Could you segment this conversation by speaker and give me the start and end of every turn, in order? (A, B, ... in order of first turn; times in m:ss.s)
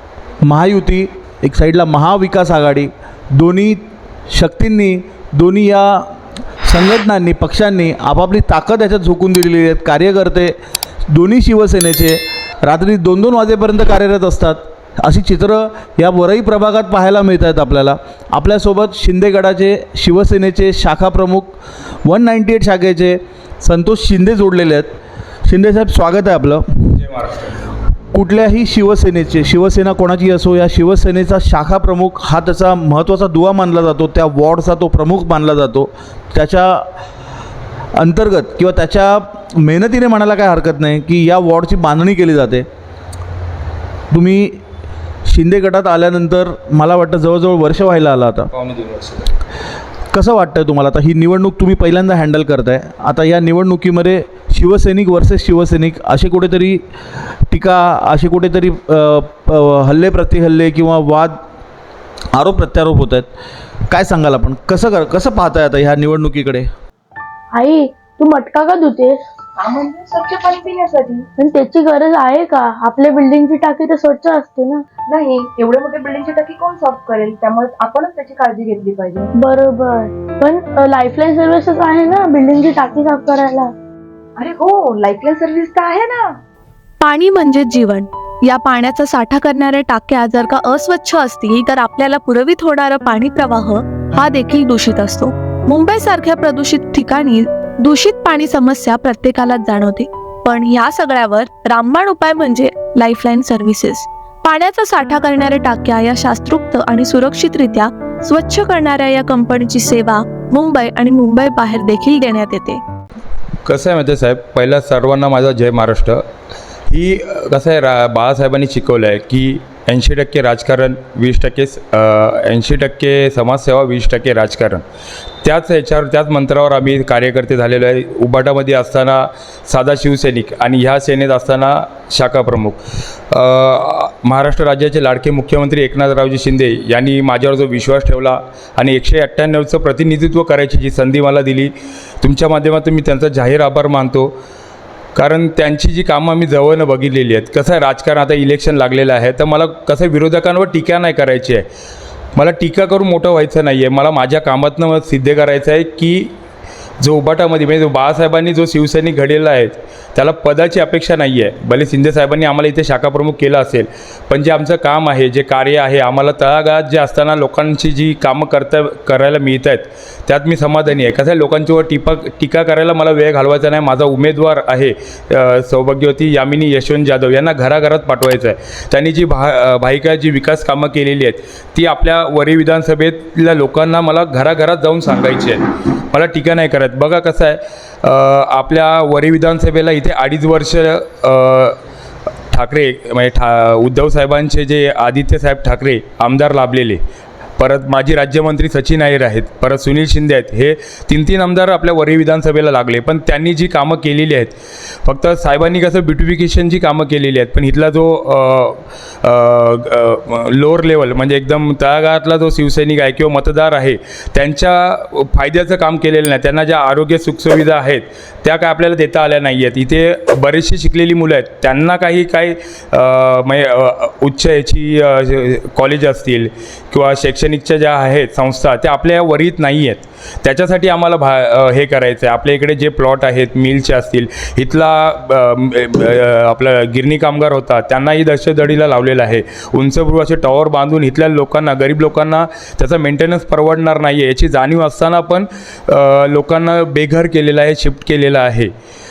0:00.4-0:10.6 A
0:11.1-0:27.0 A
0:27.0-0:27.6 B
0:28.1-0:36.9 A
0:37.9-0:42.7 A
0:44.1-0:44.6 A
0:45.3-0:48.5 A
0:48.5-0:49.3 B
0:50.1-0:56.8 A
0:57.5-1:01.4 A
1:02.3-1:03.3 A
1:03.9-1:06.7 A
1:07.6-1:09.1 C
1:09.6-1:11.3 D
1:11.4-1:14.8 C
1:15.1-1:19.3 D
1:19.4-1:23.6 C
1:22.8-1:23.2 D
1:24.4-1:26.4 D
1:27.0-1:52.8 E
1:53.7-1:56.2 B
1:56.9-2:04.8 B
2:05.4-2:24.3 B
2:25.2-2:31.7 B
2:32.4-2:36.3 B
2:37.0-3:11.8 B
3:12.5-3:17.0 B
3:17.6-4:08.7 B